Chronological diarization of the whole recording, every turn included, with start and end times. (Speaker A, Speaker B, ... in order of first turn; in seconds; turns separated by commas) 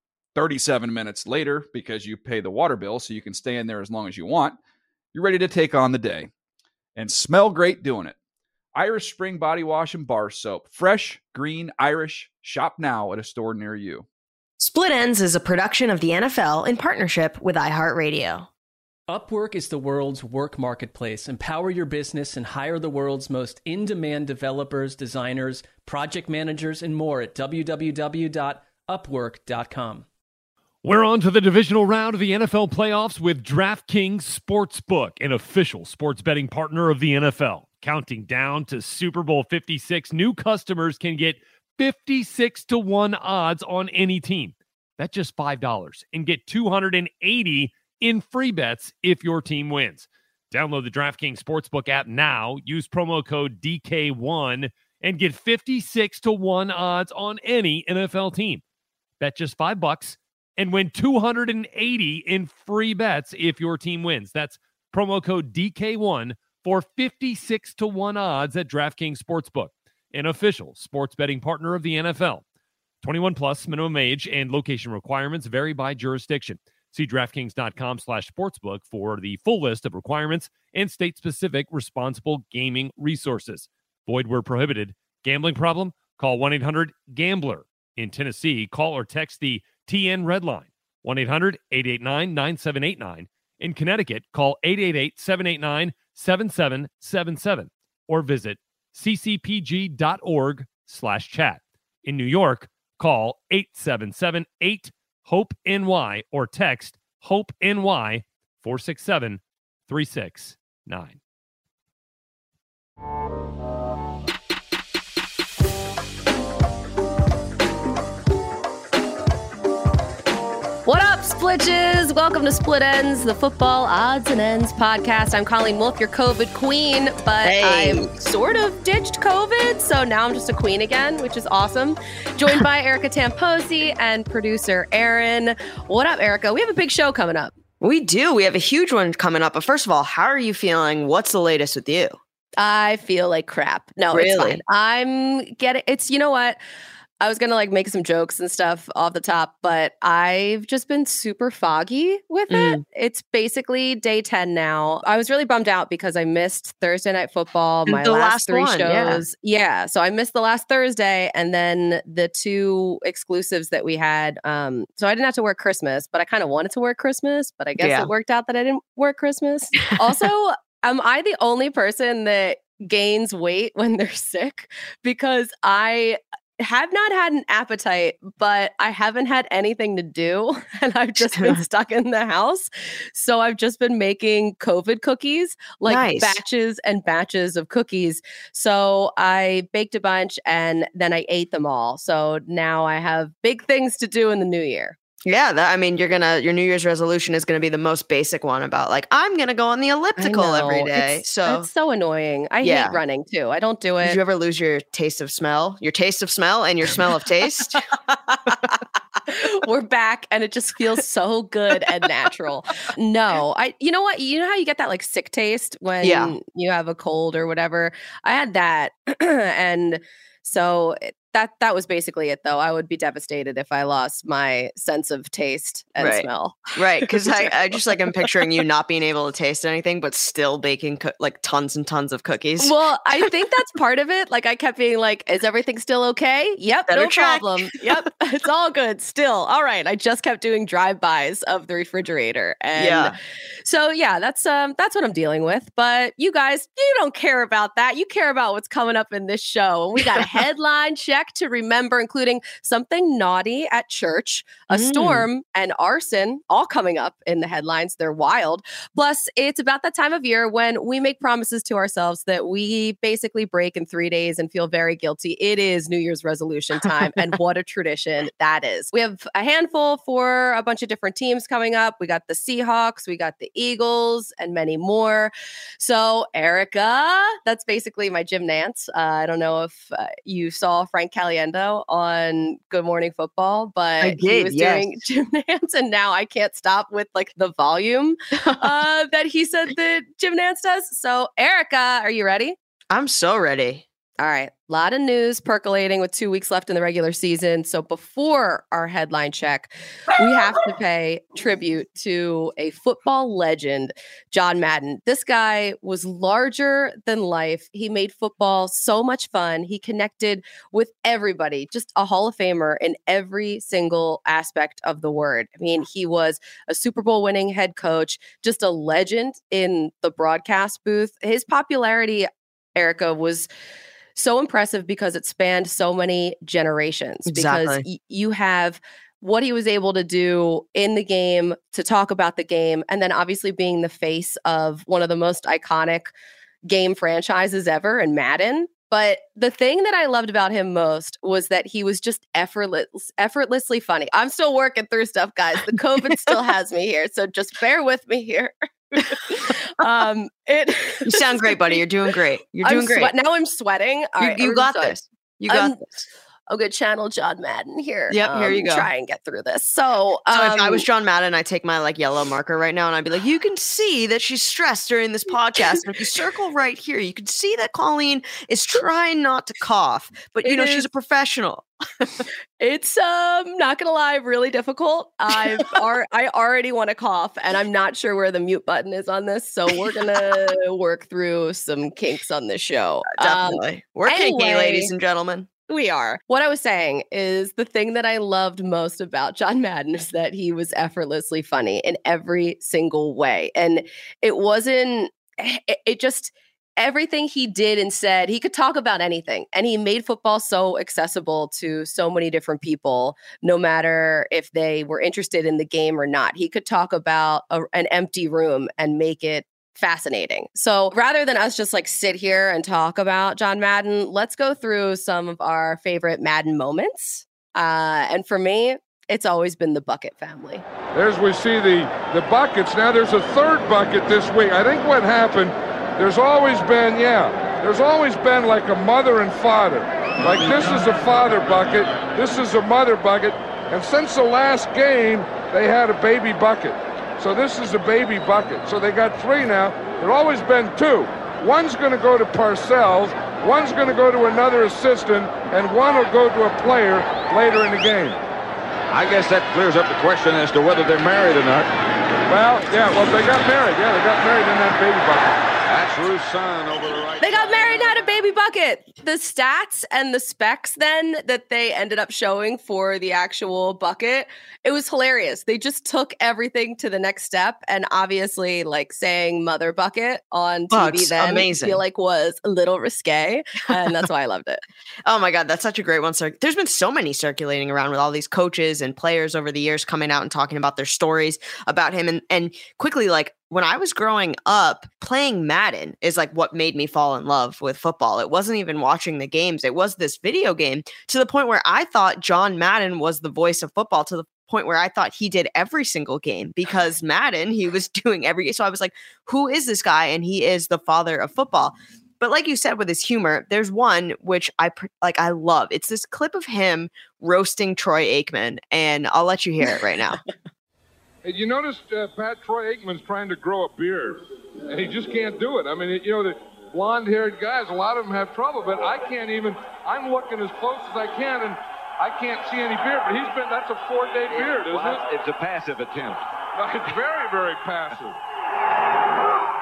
Speaker A: 0.3-4.6, Speaker A: 5.1-6.3, Speaker A: 6.9-8.1, Speaker A: 8.7-14.0, Speaker B: 14.6-18.5, Speaker C: 19.1-30.1, Speaker D: 30.8-58.6, Speaker D: 59.2-72.4, Speaker D: 73.0-111.2, Speaker E: 120.8-137.5, Speaker B: 127.4-128.1, Speaker B: 137.8-142.2, Speaker E: 142.6-146.6, Speaker B: 144.1-144.6, Speaker E: 147.2-194.9, Speaker B: 152.5-152.8, Speaker B: 157.9-159.2, Speaker B: 167.8-168.1, Speaker B: 185.9-186.4, Speaker B: 195.2-201.7, Speaker E: 200.2-204.2, Speaker B: 202.6-203.0, Speaker B: 204.0-207.8, Speaker E: 209.3-227.5, Speaker B: 216.0-216.3, Speaker B: 226.0-232.7, Speaker E: 232.6-292.5, Speaker B: 236.9-238.0, Speaker B: 242.8-243.1, Speaker B: 254.7-255.2, Speaker B: 284.0-284.9, Speaker B: 292.9-293.8, Speaker E: 294.2-323.5, Speaker E: 324.1-336.1, Speaker B: 327.3-327.8, Speaker E: 336.6-351.8, Speaker B: 351.1-353.1, Speaker E: 352.6-355.0, Speaker B: 354.2-356.1, Speaker E: 355.5-355.8, Speaker E: 356.5-360.9, Speaker B: 358.1-358.9, Speaker B: 360.3-372.2, Speaker E: 370.4-370.8, Speaker E: 372.6-384.9, Speaker B: 383.2-385.5, Speaker E: 385.7-420.6, Speaker F: 420.9-448.2, Speaker G: 448.9-451.7, Speaker F: 452.3-455.4, Speaker G: 455.6-457.7, Speaker E: 457.2-474.6, Speaker B: 470.7-471.8, Speaker B: 475.1-510.2, Speaker F: 511.2-525.1, Speaker G: 524.3-526.2, Speaker F: 526.5-528.2